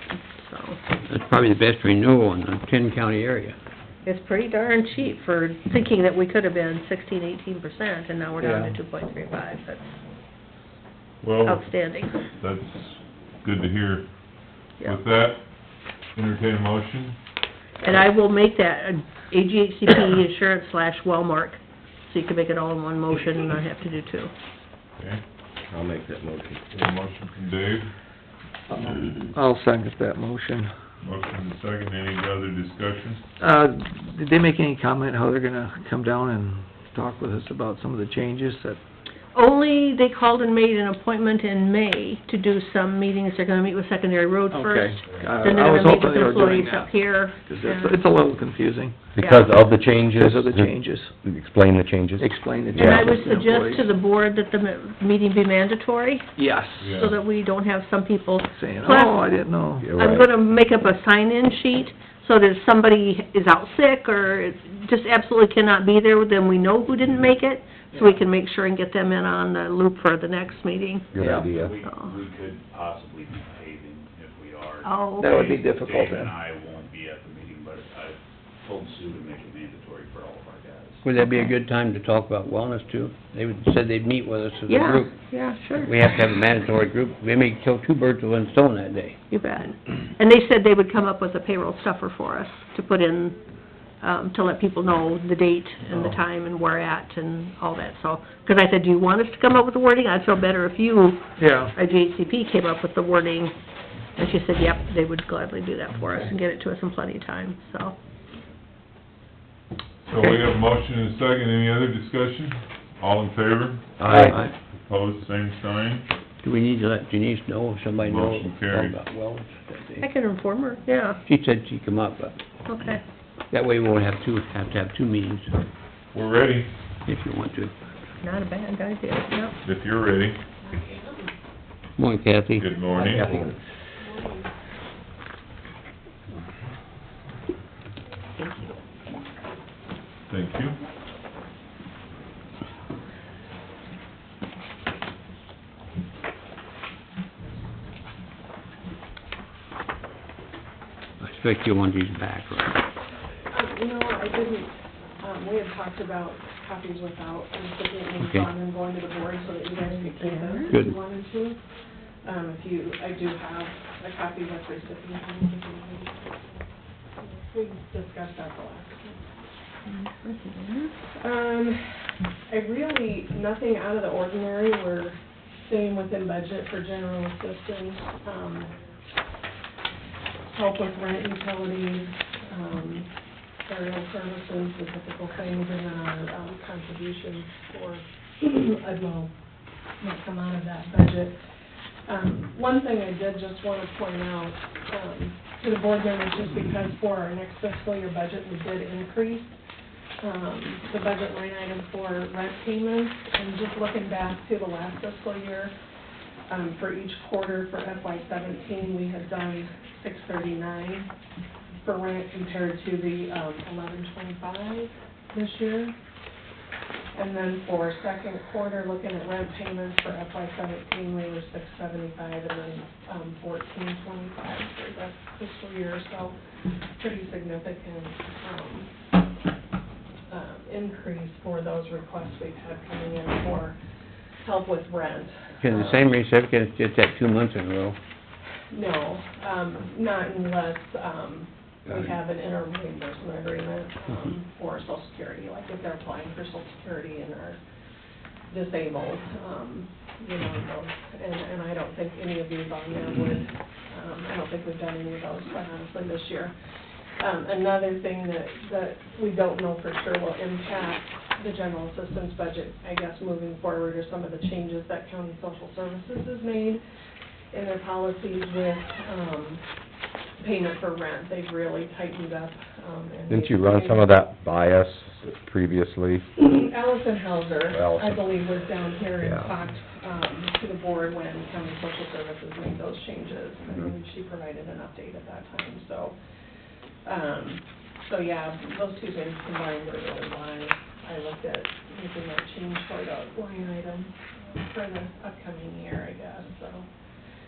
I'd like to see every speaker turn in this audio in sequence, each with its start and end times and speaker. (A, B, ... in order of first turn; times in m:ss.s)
0:00.3-0:00.8 A
0:01.1-0:03.6 B
0:04.0-0:09.8 A
0:08.4-0:08.8 C
0:11.2-0:14.1 D
0:11.4-0:12.2 A
0:14.8-0:15.4 D
0:16.1-0:17.2 D
0:17.8-0:24.3 A
0:25.7-0:26.6 E
0:26.7-0:27.9 D
0:28.7-0:30.7 C
0:31.0-0:33.2 D
0:33.4-0:38.8 C
0:39.3-0:48.0 A
0:44.5-0:49.1 C
0:49.2-0:53.1 E
0:49.2-0:49.5 A
0:50.0-0:51.1 C
0:52.2-0:53.9 C
0:52.7-0:56.4 A
0:56.4-0:57.0 C
0:56.8-0:57.2 D
0:56.9-0:59.4 A
0:58.6-1:00.3 C
0:59.8-1:00.2 E
0:59.9-1:11.1 A
1:11.1-1:11.8 E
1:11.2-1:11.5 C
1:11.6-1:21.0 F
1:11.8-1:12.1 A
1:14.8-1:15.4 A
1:15.2-1:16.4 C
1:21.0-1:29.2 B
1:24.7-1:25.9 A
1:29.3-1:33.4 A
1:34.0-1:43.5 A
1:41.4-1:41.7 C
1:44.2-1:48.0 A
1:50.0-1:56.1 D
1:54.0-1:54.4 E
1:54.0-1:54.5 B
1:54.1-1:54.4 C
1:56.4-2:00.0 B
1:58.0-1:59.0 D
2:00.0-2:01.2 A
2:01.3-2:02.4 B
2:02.6-2:03.0 A
2:03.5-2:05.5 B
2:06.1-2:06.7 D
2:07.0-2:07.7 B
2:08.2-2:09.6 A
2:09.6-2:10.4 D
2:10.6-2:11.3 G
2:12.0-2:12.7 B
2:12.6-2:13.3 D
2:13.0-2:13.5 E
2:13.1-2:13.4 G
2:14.0-2:14.4 G
2:18.4-2:18.8 A
2:20.3-2:20.8 D
2:31.2-2:32.8 B
2:33.5-2:41.6 G
2:38.2-2:38.5 B
2:39.8-2:40.7 A
2:40.7-2:40.9 B
2:42.2-2:46.7 G
2:47.2-2:49.3 G
2:49.9-2:50.9 A
2:51.2-2:52.0 G
2:52.5-2:58.7 G
3:00.5-3:03.1 G
3:03.6-3:09.3 G
3:10.0-3:11.4 G
3:12.1-3:19.6 G
3:20.2-3:25.7 G
3:26.5-3:31.1 G
3:31.8-3:35.9 G
3:37.1-3:46.3 G
3:47.0-3:48.9 G
3:50.3-3:53.8 G
3:54.4-3:56.1 G
3:55.6-3:58.0 B
3:58.7-4:07.6 G
4:08.5-4:16.5 G
4:17.2-4:26.8 G
4:27.5-4:29.6 G
4:30.4-4:34.1 G
4:33.3-4:36.3 E
4:36.4-4:46.2 G
4:37.7-4:38.2 E
4:39.2-4:39.5 E
4:47.0-4:56.8 G